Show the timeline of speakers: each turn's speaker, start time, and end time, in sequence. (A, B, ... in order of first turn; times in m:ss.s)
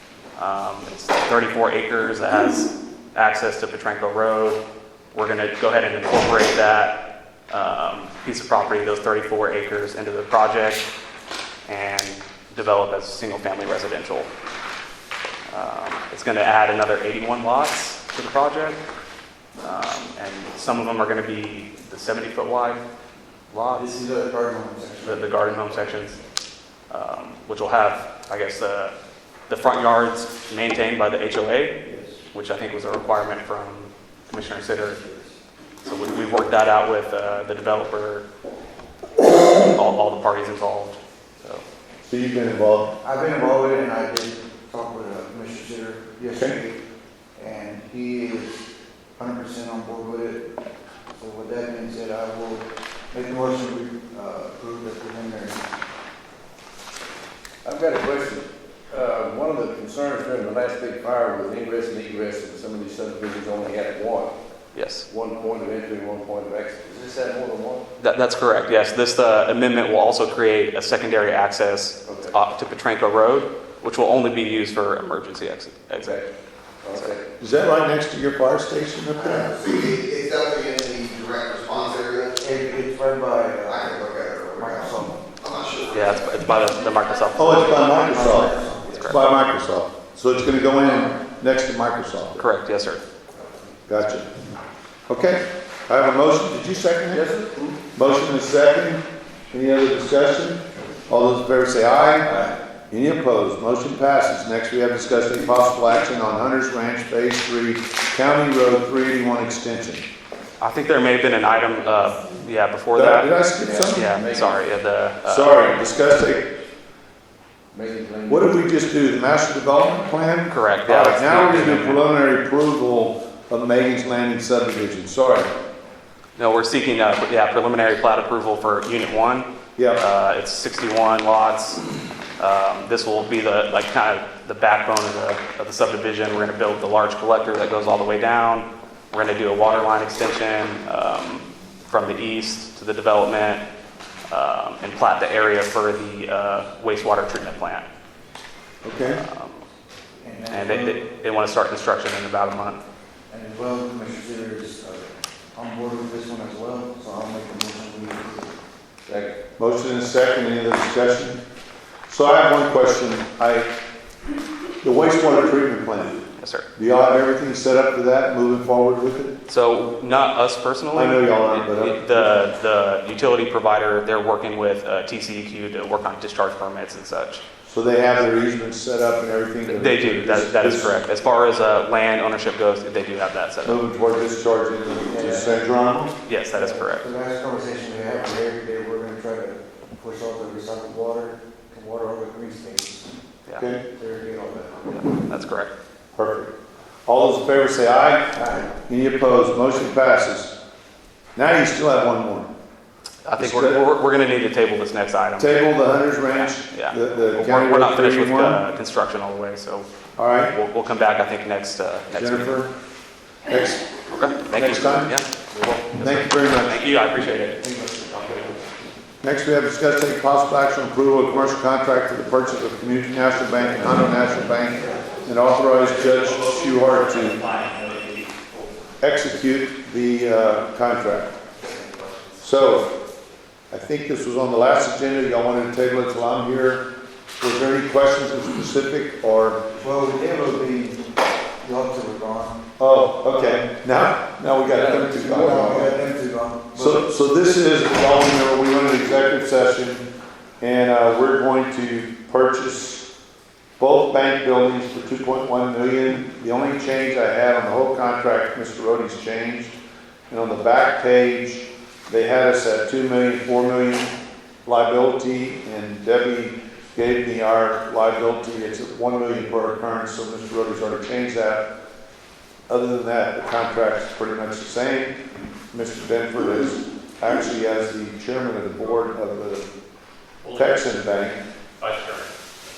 0:00.4-0:04.6 A
0:05.1-0:10.9 A
0:11.7-0:14.3 A
0:15.5-0:18.8 A
0:19.6-0:22.8 A
0:23.5-0:23.9 A
0:23.7-0:25.4 B
0:25.0-0:26.2 A
0:26.9-0:28.9 A
0:29.5-0:31.8 A
0:31.8-0:32.1 B
0:32.3-0:35.0 A
0:35.8-0:38.2 A
0:39.2-0:41.6 A
0:42.0-0:43.0 C
0:43.0-0:46.8 B
0:47.4-0:48.6 B
0:49.2-0:50.5 B
0:51.1-0:55.6 B
0:57.6-1:04.3 D
1:04.7-1:05.1 A
1:05.1-1:07.8 D
1:08.0-1:16.2 A
1:12.1-1:12.3 D
1:16.0-1:16.3 D
1:16.8-1:17.2 D
1:17.4-1:19.7 C
1:19.3-1:22.4 E
1:21.8-1:25.3 B
1:23.6-1:26.6 E
1:25.9-1:27.9 A
1:27.2-1:28.0 E
1:27.3-1:32.4 C
1:27.7-1:29.1 B
1:28.9-1:29.2 A
1:32.4-1:33.1 A
1:33.9-1:34.3 C
1:35.1-1:37.3 C
1:37.1-1:37.8 D
1:37.9-1:50.0 C
1:50.6-1:53.3 A
1:52.9-1:54.2 C
1:53.6-1:54.6 D
1:53.9-1:55.7 A
1:55.2-1:56.5 C
1:57.7-1:58.5 D
1:58.3-2:05.5 C
2:00.5-2:02.0 A
2:06.4-2:11.8 A
2:09.8-2:10.0 C
2:12.4-2:23.6 A
2:24.3-2:27.9 A
2:28.8-2:29.2 C
2:29.2-2:29.6 A
2:30.2-2:31.0 B
2:30.5-2:32.8 A
2:33.3-2:38.5 B
2:39.0-2:39.4 D
2:39.6-2:41.4 C
2:42.1-2:43.7 C
2:44.8-2:46.2 C
2:46.4-2:46.7 A
2:46.8-2:49.3 C
2:49.5-2:57.4 A
2:50.9-2:52.3 C
2:57.6-3:00.9 C
2:59.7-3:03.8 A
3:03.6-3:06.2 C
3:05.1-3:05.6 B
3:06.2-3:07.1 A
3:06.5-3:13.1 B
3:13.6-3:13.8 C
3:13.9-3:14.9 B
3:14.9-3:15.7 A
3:16.2-3:16.5 C
3:17.1-3:20.5 C
3:18.3-3:18.8 B
3:21.3-3:22.5 C
3:23.2-3:25.7 A
3:23.4-3:23.8 C
3:25.4-3:28.6 C
3:26.3-3:29.9 A
3:30.2-3:30.6 C
3:30.5-3:32.6 A
3:32.2-3:32.7 C
3:33.5-3:33.9 C
3:34.1-3:38.6 A
3:34.5-3:35.2 C
3:36.0-3:36.8 C
3:39.2-3:47.4 C
3:45.8-3:48.7 A
3:49.0-3:51.4 C
3:51.6-3:52.4 A
3:52.4-3:52.9 C
3:53.7-3:56.9 C
3:57.4-3:59.6 C
3:59.7-4:01.0 B
4:01.6-4:02.6 B
4:02.8-4:05.9 C
4:04.7-4:05.8 D
4:05.3-4:07.1 B
4:06.7-4:10.0 C
4:10.6-4:13.1 C
4:13.8-4:19.7 C
4:20.3-4:24.1 C
4:24.6-4:31.7 C
4:32.7-4:35.2 C
4:35.7-4:39.7 C
4:40.4-4:40.7 A
4:40.5-4:41.4 C
4:41.8-4:42.3 A